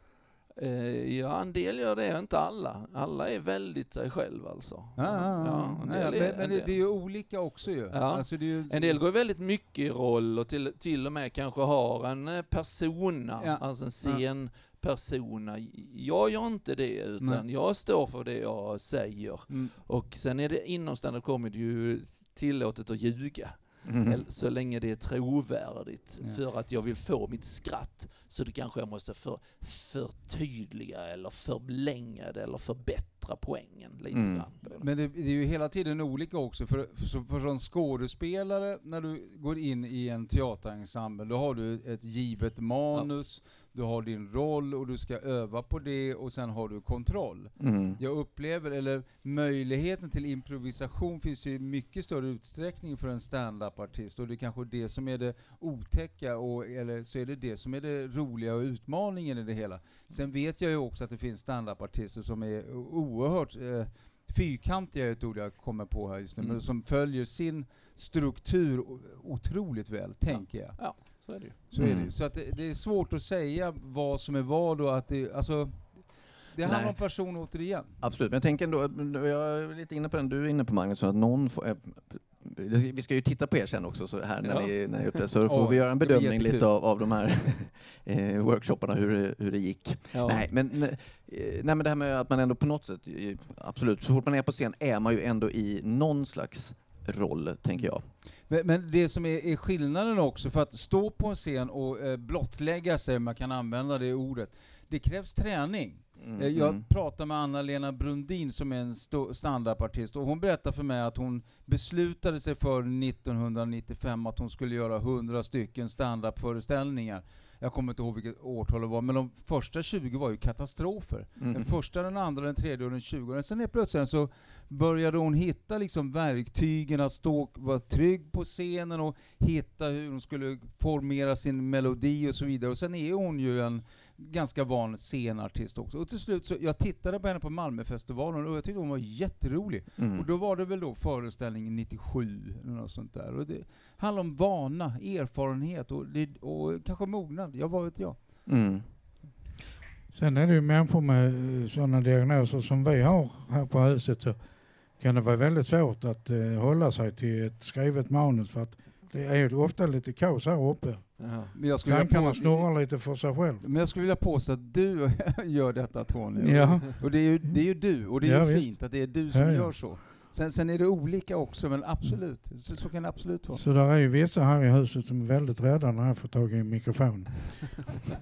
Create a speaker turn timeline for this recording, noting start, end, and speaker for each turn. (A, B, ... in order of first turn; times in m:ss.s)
0:00.6-0:06.8 A
0:05.0-0:09.0 B
0:07.9-0:34.9 A
0:13.4-0:14.2 B
0:19.5-0:19.8 B
0:23.8-0:24.2 C
0:34.1-0:34.4 C
0:34.8-1:18.0 B
0:47.6-0:48.0 C
1:10.3-1:11.6 A
1:11.8-1:12.2 C
1:16.6-1:17.1 C
1:18.0-1:38.1 C
1:24.4-1:24.7 A
1:25.4-1:26.7 B
1:30.1-1:30.4 B
1:38.2-2:28.5 B
1:46.2-1:46.8 C
2:01.4-2:01.7 C
2:20.0-2:20.3 C
2:28.4-2:28.9 C
2:30.1-2:43.6 D
2:41.2-2:41.5 A
2:41.5-2:43.0 B
2:43.6-2:53.6 B
2:46.4-2:50.0 D
2:53.5-2:57.9 D